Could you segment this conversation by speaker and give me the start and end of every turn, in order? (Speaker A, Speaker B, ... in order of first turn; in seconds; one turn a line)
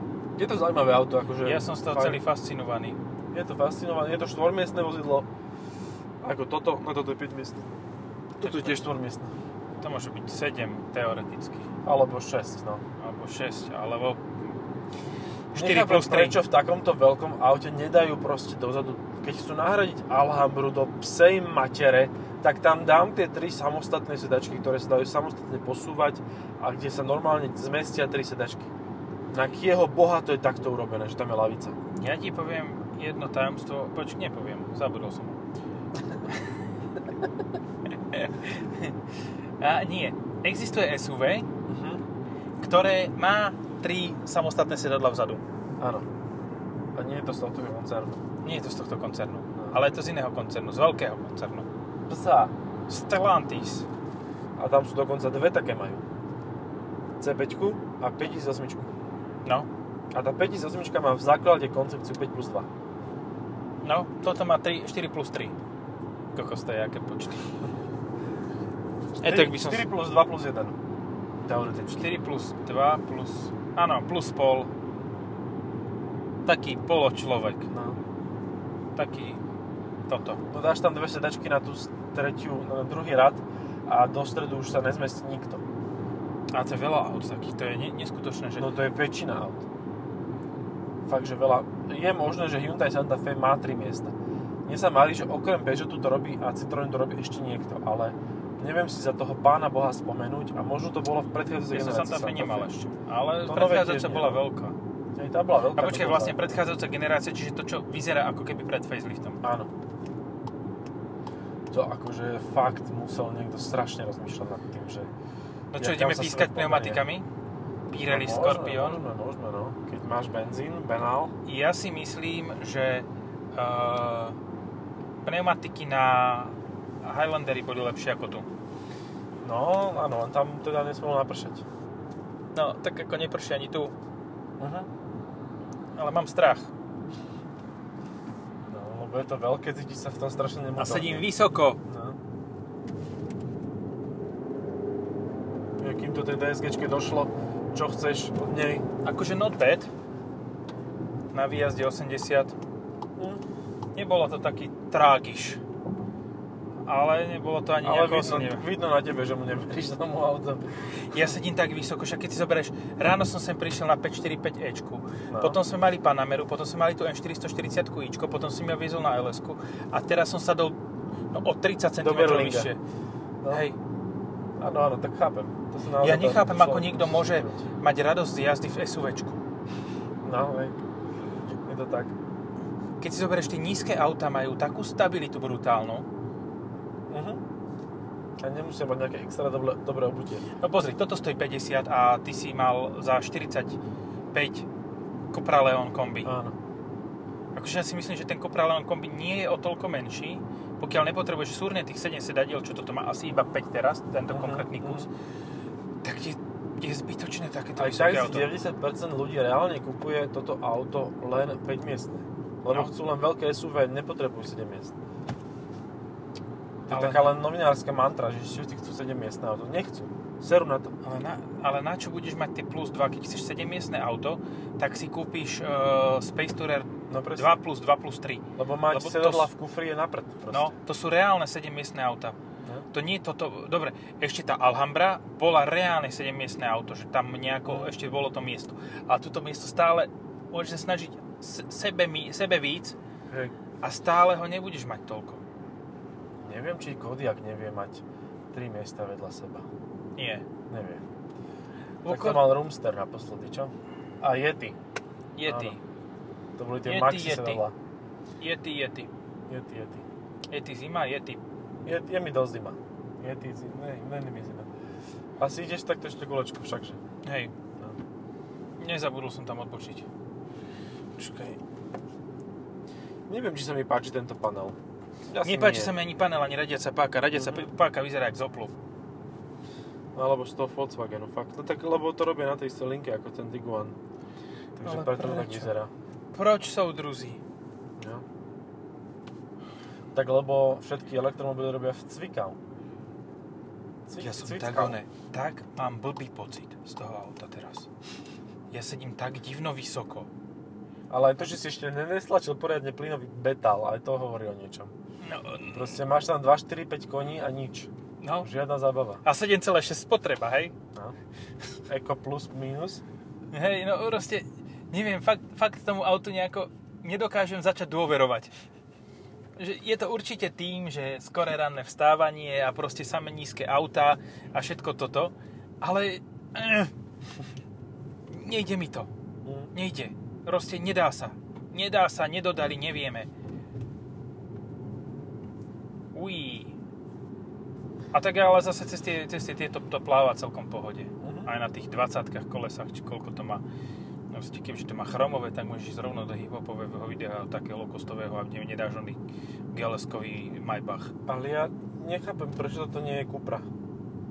Speaker A: 0.3-2.2
Speaker B: 1.4-3.0
Speaker A: 3.3-5.3
Speaker A: 6.2-7.7
Speaker A: 8.4-9.3
Speaker B: 8.4-8.9
Speaker B: 9.8-11.7
Speaker A: 11.8-12.8
Speaker B: 13.0-14.2
Speaker B: 15.5-16.4
Speaker A: 15.5-28.7
Speaker A: 29.3-31.8
Speaker B: 31.9-35.4
Speaker B: 38.0-39.0
Speaker B: 39.6-41.5
Speaker A: 41.7-42.0
Speaker B: 42.6-45.4
Speaker A: 45.8-46.1
Speaker A: 46.9-48.2
Speaker B: 48.4-51.7
Speaker A: 49.5-49.8
Speaker A: 52.1-52.5
Speaker B: 52.9-53.9
Speaker A: 54.6-56.0
Speaker A: 57.2-58.9
Speaker A: 60.1-62.7
Speaker B: 63.8-65.5
Speaker B: 66.3-67.5
Speaker B: 69.2-69.8
Speaker A: 69.2-70.8
Speaker A: 71.4-72.1
Speaker B: 71.9-74.7
Speaker B: 76.5-77.7
Speaker A: 77.7-78.0
Speaker B: 79.0-79.4
Speaker B: 80.1-80.4
Speaker A: 80.5-85.6
Speaker B: 86.5-88.7
Speaker A: 88.6-89.7
Speaker A: 91.0-94.1
Speaker A: 94.7-102.7
Speaker B: 101.7-104.8
Speaker A: 103.4-104.4
Speaker A: 105.1-106.7
Speaker B: 105.7-109.4
Speaker A: 109.4-109.7
Speaker A: 111.7-115.1
Speaker B: 115.7-117.2
Speaker A: 115.8-117.0
Speaker B: 117.9-119.0
Speaker A: 118.1-121.3
Speaker B: 121.5-124.3
Speaker B: 125.2-128.5
Speaker A: 129.4-131.6
Speaker B: 132.5-133.9
Speaker A: 134.6-134.9
Speaker B: 135.9-136.7
Speaker A: 138.7-141.3
Speaker B: 140.8-141.8
Speaker A: 141.8-142.2
Speaker A: 145.8-148.8
Speaker B: 149.0-149.9
Speaker B: 151.3-152.5
Speaker A: 153.2-153.4
Speaker B: 153.9-155.6
Speaker B: 156.8-158.7
Speaker A: 157.8-161.1
Speaker B: 161.1-170.8
Speaker A: 165.3-165.6
Speaker B: 171.3-172.8
Speaker A: 172.0-172.7
Speaker A: 173.4-173.7
Speaker B: 173.5-173.8
Speaker A: 174.6-177.6
Speaker B: 176.0-179.4
Speaker A: 180.2-180.8
Speaker A: 181.4-182.1
Speaker B: 183.0-186.1
Speaker A: 187.1-187.4
Speaker A: 188.4-190.5
Speaker B: 190.6-193.8
Speaker B: 194.3-194.7
Speaker B: 195.3-196.3
Speaker A: 196.2-196.6
Speaker B: 197.5-205.1
Speaker A: 204.3-205.1
Speaker B: 206.0-208.5
Speaker A: 207.8-214.9
Speaker B: 212.7-212.9
Speaker A: 216.9-220.9
Speaker B: 216.9-217.3
Speaker B: 221.0-229.5
Speaker A: 227.1-227.5
Speaker A: 228.6-230.7
Speaker B: 230.5-232.3
Speaker B: 232.9-242.9
Speaker A: 237.7-237.9
Speaker A: 243.3-243.5
Speaker B: 243.8-245.4
Speaker A: 246.4-249.7
Speaker B: 250.2-250.4
Speaker A: 250.7-251.0
Speaker B: 252.0-252.5
Speaker A: 252.1-254.8
Speaker B: 255.3-255.8
Speaker A: 255.4-255.8
Speaker A: 256.6-257.7
Speaker B: 256.9-257.6
Speaker B: 258.4-259.1
Speaker A: 259.5-260.1
Speaker B: 260.5-261.4
Speaker A: 261.8-264.7
Speaker A: 265.4-267.0
Speaker B: 267.2-267.5
Speaker B: 268.8-270.1
Speaker B: 271.2-271.6
Speaker A: 273.3-274.8
Speaker A: 275.3-275.9
Speaker B: 275.4-278.7
Speaker A: 277.3-277.7
Speaker A: 280.1-284.0
Speaker A: 284.8-285.9
Speaker B: 284.8-285.7
Speaker B: 286.3-287.4
Speaker A: 288.0-288.2
Speaker A: 290.1-292.6
Speaker A: 294.1-295.0
Speaker B: 294.2-297.9
Speaker B: 298.7-300.3
Speaker A: 301.1-304.9
Speaker B: 305.2-306.0
Speaker A: 305.7-309.2
Speaker B: 308.2-308.5
Speaker B: 309.2-310.7
Speaker A: 311.9-313.0
Speaker B: 313.5-318.5
Speaker B: 319.6-326.9
Speaker B: 328.3-329.1
Speaker A: 329.4-329.7
Speaker B: 329.7-333.3
Speaker B: 336.1-336.8
Speaker B: 338.1-343.6
Speaker A: 341.2-341.5
Speaker B: 344.3-349.2
Speaker B: 349.7-351.1
Speaker A: 351.3-353.7